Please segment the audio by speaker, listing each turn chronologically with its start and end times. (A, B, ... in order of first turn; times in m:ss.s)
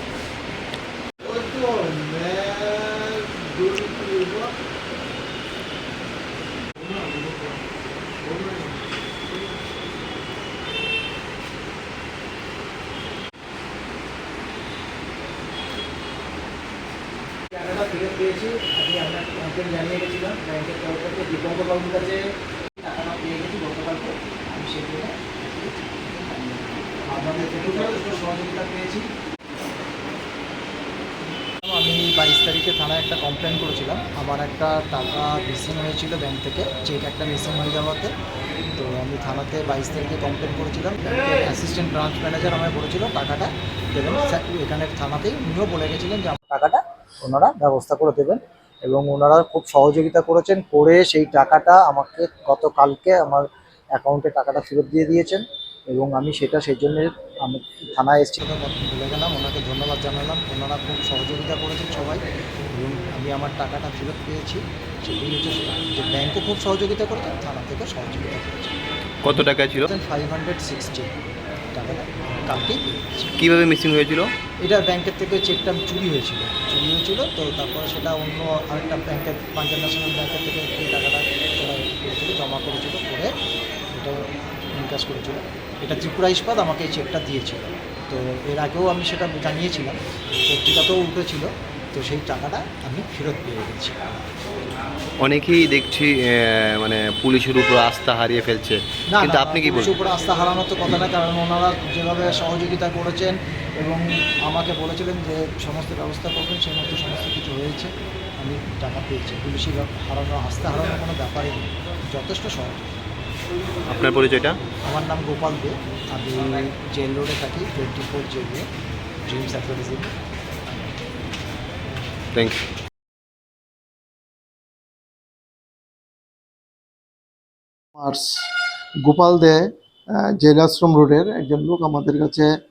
0:01.2-0:04.5 A
0:06.8-0:07.2 A
0:08.3-0:08.6 A
0:17.5-0:22.2 B
0:22.8-0:29.1 B
0:31.7-0:38.1 B
0:38.7-0:53.4 B
0:47.9-0:48.2 C
0:48.9-0:53.4 C
0:54.0-1:08.8 B
0:54.6-0:55.1 C
0:56.0-0:56.4 C
1:09.2-1:09.9 C
1:09.3-1:11.1 B
1:11.7-1:13.3 B
1:13.4-1:14.3 C
1:14.6-1:23.3 B
1:23.9-1:34.0 B
1:35.2-1:39.9 C
1:39.1-1:52.8 B
1:53.9-1:54.6 C
1:54.9-1:58.7 B
1:59.3-2:00.2 B
2:02.3-2:02.6 C
2:08.0-2:08.5 A
2:09.0-2:12.5 A